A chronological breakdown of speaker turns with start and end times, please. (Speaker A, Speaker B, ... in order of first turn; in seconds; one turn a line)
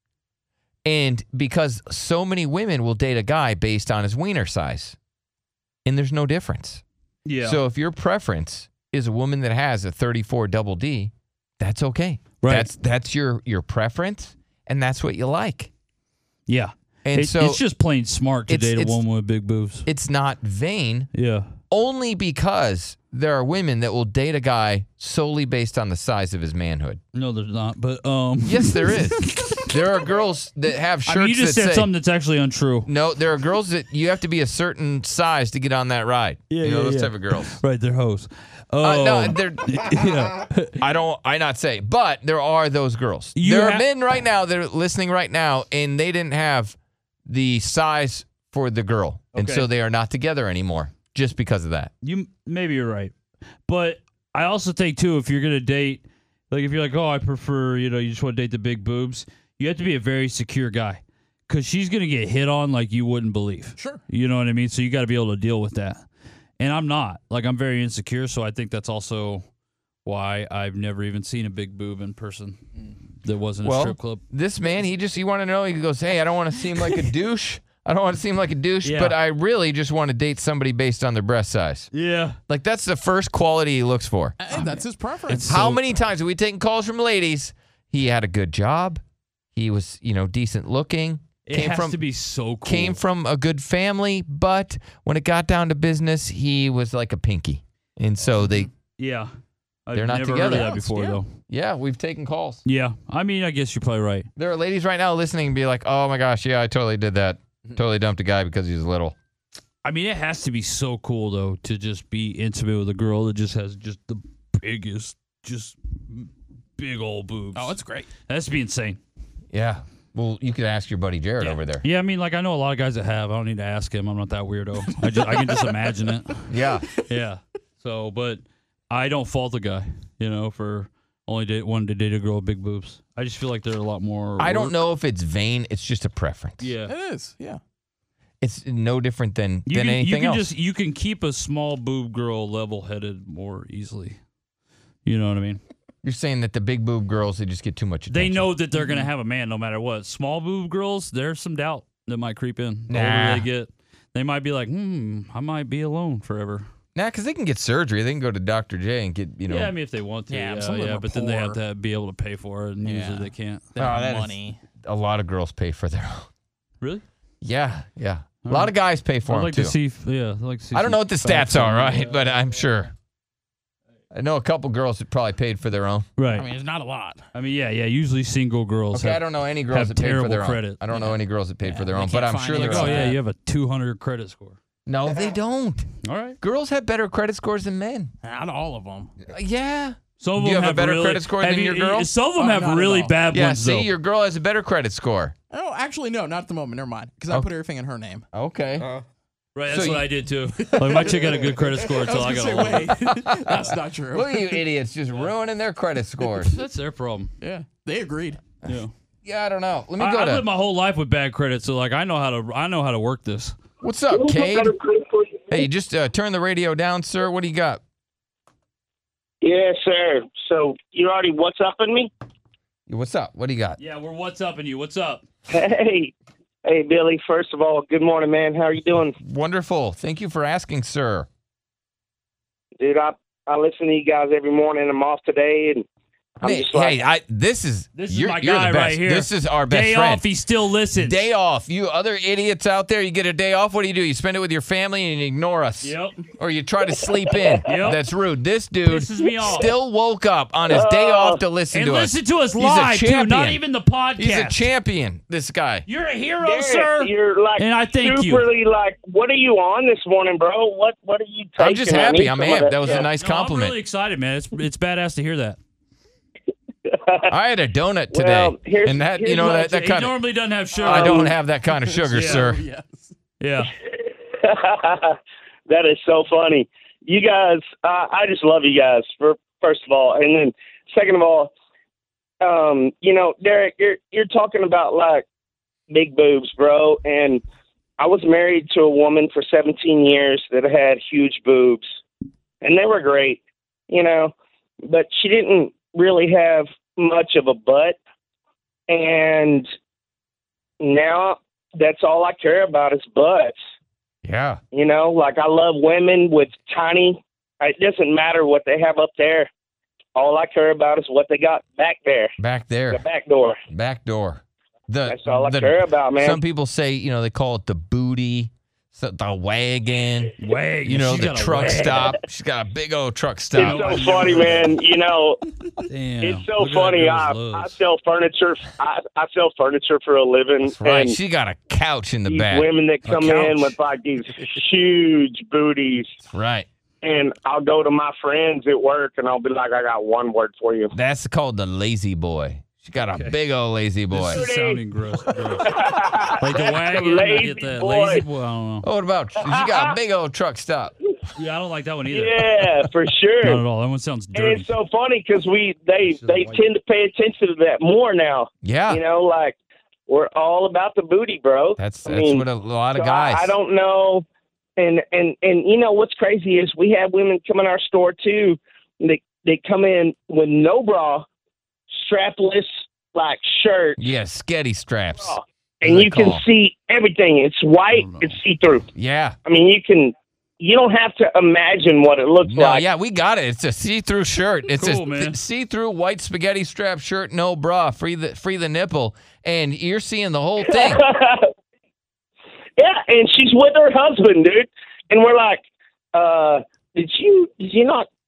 Speaker A: 0.8-5.0
Speaker A: 5.9-6.8
Speaker B: 7.3-7.6
Speaker A: 7.4-15.7
Speaker B: 12.4-12.7
Speaker B: 16.5-19.9
Speaker A: 17.1-17.6
Speaker A: 18.5-19.0
Speaker A: 19.9-21.1
Speaker B: 21.1-21.5
Speaker A: 21.7-27.0
Speaker B: 27.1-29.6
Speaker A: 28.4-31.9
Speaker B: 31.1-32.9
Speaker A: 32.9-37.6
Speaker B: 36.5-40.8
Speaker A: 38.8-39.7
Speaker A: 40.8-46.8
Speaker B: 43.4-43.9
Speaker A: 47.3-51.9
Speaker B: 49.3-49.7
Speaker B: 52.0-53.1
Speaker B: 53.7-66.0
Speaker C: 63.8-64.0
Speaker B: 66.6-69.4
Speaker B: 70.0-72.6
Speaker B: 73.2-74.2
Speaker A: 73.6-81.9
Speaker B: 78.8-79.2
Speaker B: 81.9-82.4
Speaker A: 82.5-84.6
Speaker C: 84.4-85.7
Speaker B: 84.5-85.8
Speaker A: 85.3-89.0
Speaker A: 89.5-92.0
Speaker B: 91.5-93.0
Speaker A: 92.7-98.7
Speaker C: 98.3-98.7
Speaker B: 99.0-99.3
Speaker B: 99.9-101.3
Speaker A: 99.9-100.7
Speaker C: 100.5-101.2
Speaker A: 101.5-102.6
Speaker B: 102.7-104.3
Speaker A: 104.4-109.2
Speaker B: 109.8-119.0
Speaker C: 117.5-118.1
Speaker A: 119.5-121.8
Speaker B: 121.4-134.8
Speaker C: 125.1-125.9
Speaker A: 126.5-126.9
Speaker A: 134.4-136.7
Speaker B: 136.6-136.9
Speaker C: 136.9-137.6
Speaker A: 138.4-140.5
Speaker B: 139.7-144.2
Speaker B: 145.1-145.6
Speaker A: 146.0-148.5
Speaker B: 148.1-156.7
Speaker A: 152.9-153.5
Speaker A: 156.9-159.7
Speaker B: 159.5-163.7
Speaker C: 160.3-161.6
Speaker C: 162.8-164.6
Speaker A: 163.8-166.3
Speaker A: 167.4-169.8
Speaker B: 168.4-168.7
Speaker B: 169.3-172.1
Speaker A: 170.7-172.9
Speaker A: 174.1-176.1
Speaker B: 176.2-176.5
Speaker C: 176.3-177.3
Speaker B: 177.3-180.8
Speaker A: 178.9-183.2
Speaker C: 180.9-183.2
Speaker B: 182.5-184.6
Speaker A: 184.9-185.9
Speaker B: 186.0-186.4
Speaker A: 186.4-188.1
Speaker C: 188.2-189.1
Speaker A: 189.3-192.1
Speaker B: 190.2-193.9
Speaker C: 192.4-193.2
Speaker A: 193.3-195.3
Speaker C: 195.5-198.2
Speaker A: 198.3-198.9
Speaker B: 199.6-203.0
Speaker A: 199.7-200.1
Speaker C: 200.6-204.6
Speaker A: 200.8-201.2
Speaker A: 203.2-206.6
Speaker B: 206.4-207.3
Speaker C: 207.4-208.4
Speaker B: 208.7-208.9
Speaker A: 208.7-210.4
Speaker B: 210.0-213.6
Speaker A: 213.8-214.7
Speaker D: 214.1-215.7
Speaker A: 215.5-217.8
Speaker D: 219.4-222.1
Speaker A: 222.9-223.8
Speaker B: 223.8-225.2
Speaker D: 225.5-226.1
Speaker D: 226.7-229.2
Speaker A: 229.2-231.3
Speaker D: 232.8-235.8
Speaker D: 236.4-237.0
Speaker A: 236.4-240.2
Speaker B: 237.9-241.3
Speaker A: 240.9-253.6
Speaker B: 245.8-246.2
Speaker D: 247.6-247.9
Speaker B: 247.7-248.0
Speaker B: 248.9-249.7
Speaker D: 250.7-251.4
Speaker B: 251.7-254.7
Speaker A: 254.2-255.8
Speaker B: 255.9-258.5
Speaker D: 256.4-263.1
Speaker A: 261.6-263.8
Speaker B: 262.9-265.6
Speaker D: 266.9-267.3
Speaker A: 267.3-270.2
Speaker D: 268.1-269.7
Speaker B: 269.4-271.4
Speaker A: 270.8-272.6
Speaker C: 270.8-273.2
Speaker B: 272.1-272.5
Speaker B: 273.4-273.7
Speaker D: 273.9-275.2
Speaker D: 275.7-281.5
Speaker D: 282.4-285.2
Speaker D: 285.9-287.4
Speaker D: 288.0-291.9
Speaker D: 292.6-294.3
Speaker D: 294.8-298.0
Speaker D: 298.9-299.7
Speaker D: 300.8-303.6
Speaker A: 304.2-304.6
Speaker D: 304.7-309.5
Speaker D: 310.1-312.4
Speaker A: 312.4-313.0
Speaker D: 312.9-313.6
Speaker A: 313.7-324.4
Speaker D: 315.1-316.4
Speaker B: 320.4-322.1
Speaker D: 321.6-322.2
Speaker D: 323.6-325.4
Speaker B: 323.6-324.8
Speaker B: 325.8-327.8
Speaker D: 326.2-331.2
Speaker A: 330.6-332.7
Speaker D: 332.3-336.2
Speaker B: 333.1-333.7
Speaker A: 336.2-336.7
Speaker D: 337.0-340.9
Speaker A: 340.9-344.4
Speaker B: 343.1-343.4
Speaker B: 344.1-345.7
Speaker D: 344.3-344.8
Speaker D: 345.6-348.2
Speaker B: 346.4-348.9
Speaker A: 348.8-350.9
Speaker D: 349.4-350.0
Speaker B: 351.4-352.6
Speaker D: 352.1-353.6
Speaker B: 353.4-354.7
Speaker D: 354.3-359.6
Speaker B: 356.0-356.6
Speaker A: 358.6-359.0
Speaker D: 360.1-364.2
Speaker A: 361.8-363.5
Speaker D: 364.8-371.3
Speaker D: 371.9-374.1
Speaker A: 374.0-376.4
Speaker D: 375.2-378.9
Speaker B: 377.9-378.4
Speaker A: 378.9-379.4
Speaker D: 379.4-382.9
Speaker A: 382.4-391.0
Speaker B: 384.7-385.4
Speaker D: 390.6-391.5
Speaker D: 392.8-395.6
Speaker D: 396.1-398.1